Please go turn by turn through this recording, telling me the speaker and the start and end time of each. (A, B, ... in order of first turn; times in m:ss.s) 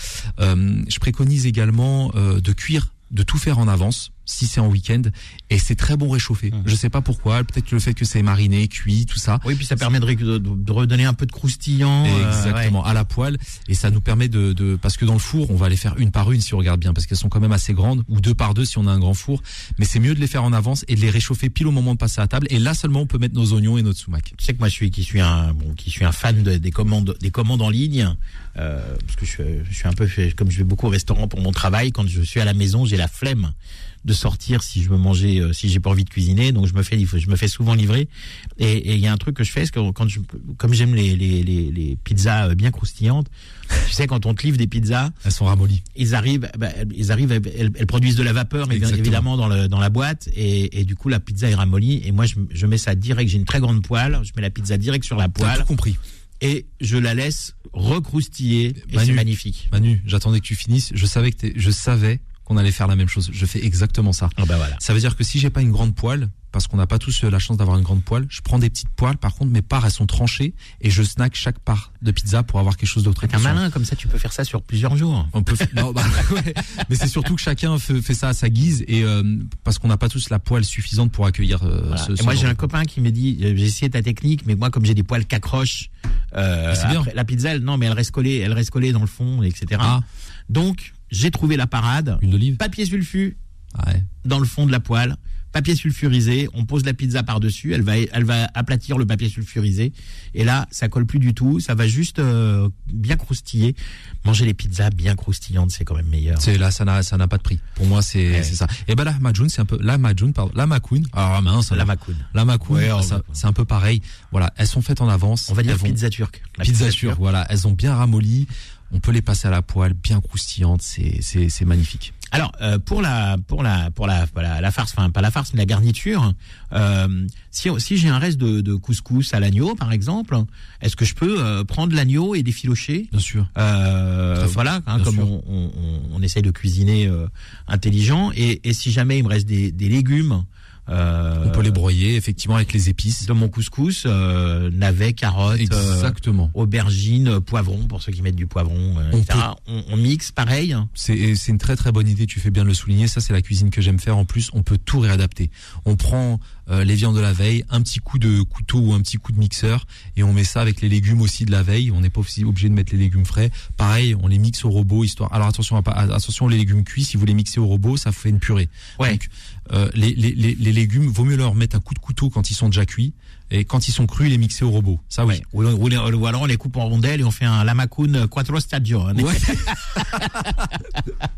0:00.4-0:09.4 A
0:09.4-0:12.8 B
0:12.0-0:24.3 A
0:24.4-0:33.5 B
0:34.0-0:43.3 B
0:43.8-0:45.2 B
0:45.2-0:45.8 A
0:46.0-0:55.7 B
0:48.7-0:49.2 A
0:55.4-0:56.0 A
0:56.4-0:59.7 B
0:58.9-1:13.6 A
1:04.4-1:04.8 B
1:13.2-1:15.8 B
1:15.3-1:22.6 A
1:21.9-1:33.4 B
1:26.7-1:27.1 A
1:32.2-1:32.6 A
1:33.8-1:34.1 A
1:34.2-1:46.5 B
1:46.4-1:56.0 A
1:48.3-1:48.5 B
1:51.7-1:53.4 B
1:55.5-1:57.2 B
1:56.6-2:02.1 A
2:02.3-2:21.8 B
2:13.1-2:13.5 A
2:14.4-2:15.3 A
2:21.4-2:23.3 A
2:23.2-2:30.9 B
2:25.6-2:26.5 A
2:29.1-2:29.5 A
2:31.0-2:55.4 A
2:55.3-2:59.5 B
2:59.2-3:00.4 A